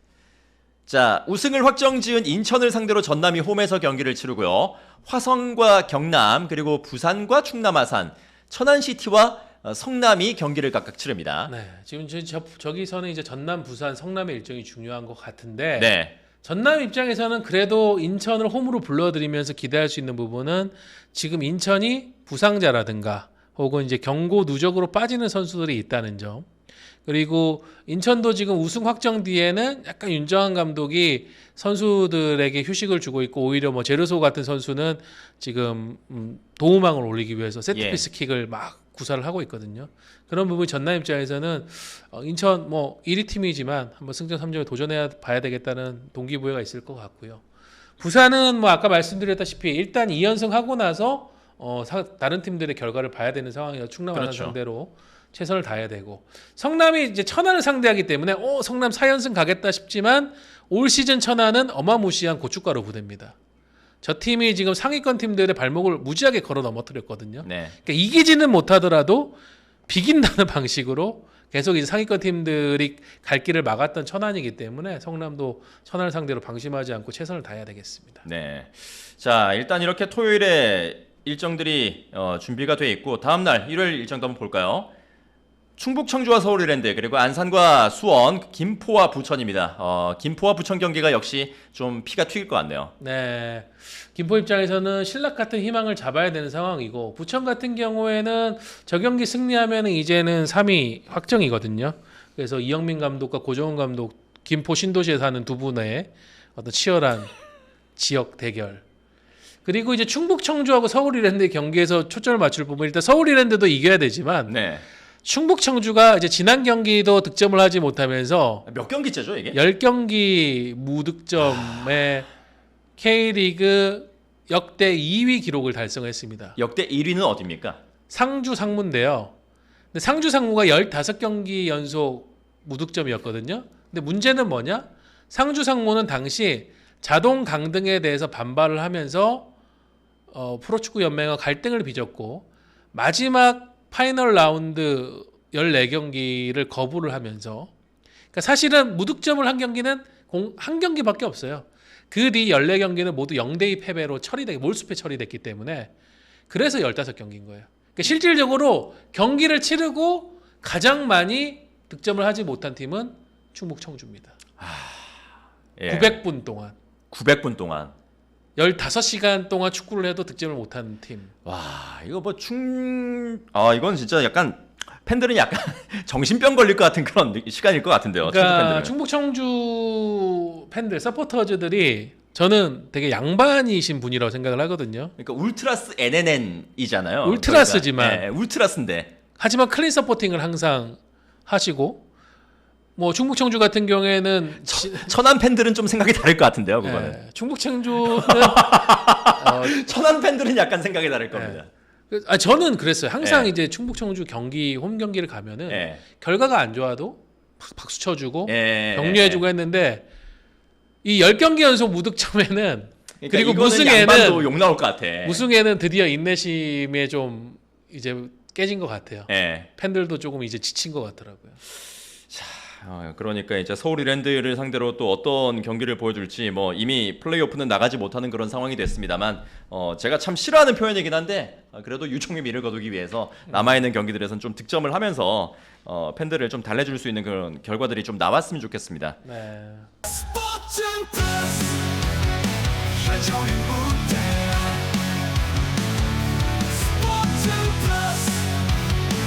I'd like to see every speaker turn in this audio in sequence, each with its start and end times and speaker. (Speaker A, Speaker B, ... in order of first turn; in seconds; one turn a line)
Speaker A: 0.9-11.5
Speaker B: 11.5-26.5
Speaker A: 15.7-16.1
Speaker B: 27.0-47.4
Speaker A: 37.7-38.0
Speaker B: 48.0-63.4
Speaker A: 54.1-54.5
Speaker B: 64.0-69.3
Speaker A: 67.4-67.8
Speaker B: 69.9-78.2
Speaker A: 78.2-84.9
Speaker A: 85.8-92.9
Speaker B: 93.0-107.3
Speaker B: 108.0-108.8
Speaker B: 109.6-114.5
Speaker A: 114.5-114.8
Speaker B: 115.2-118.7
Speaker A: 118.7-119.6
Speaker B: 119.5-122.3
Speaker A: 121.4-121.8
Speaker B: 123.0-126.6
Speaker A: 126.6-127.8
Speaker B: 128.1-129.3
Speaker B: 129.9-139.5
Speaker B: 140.3-147.7
Speaker B: 148.3-155.9
Speaker B: 156.5-164.3
Speaker A: 164.6-165.2
Speaker A: 165.8-166.2
Speaker B: 165.9-166.8
Speaker A: 167.1-167.9
Speaker B: 168.6-171.3
Speaker A: 171.4-178.9
Speaker B: 178.2-185.1
Speaker A: 185.2-189.1
Speaker B: 187.2-188.3
Speaker B: 189.4-192.0
Speaker B: 192.9-195.1
Speaker A: 194.6-197.2
Speaker B: 196.8-199.8
Speaker A: 197.9-201.7
Speaker B: 201.3-210.1
Speaker A: 203.2-203.5
Speaker A: 205.7-206.0
Speaker A: 208.5-209.4
Speaker B: 211.0-214.5
Speaker A: 213.2-215.4
Speaker B: 215.2-221.6
Speaker A: 219.3-219.7
Speaker A: 222.3-239.2
Speaker B: 233.5-233.8
Speaker B: 239.2-239.9
Speaker C: 240.5-241.7
Speaker C: 243.1-244.7
Speaker C: 247.1-248.3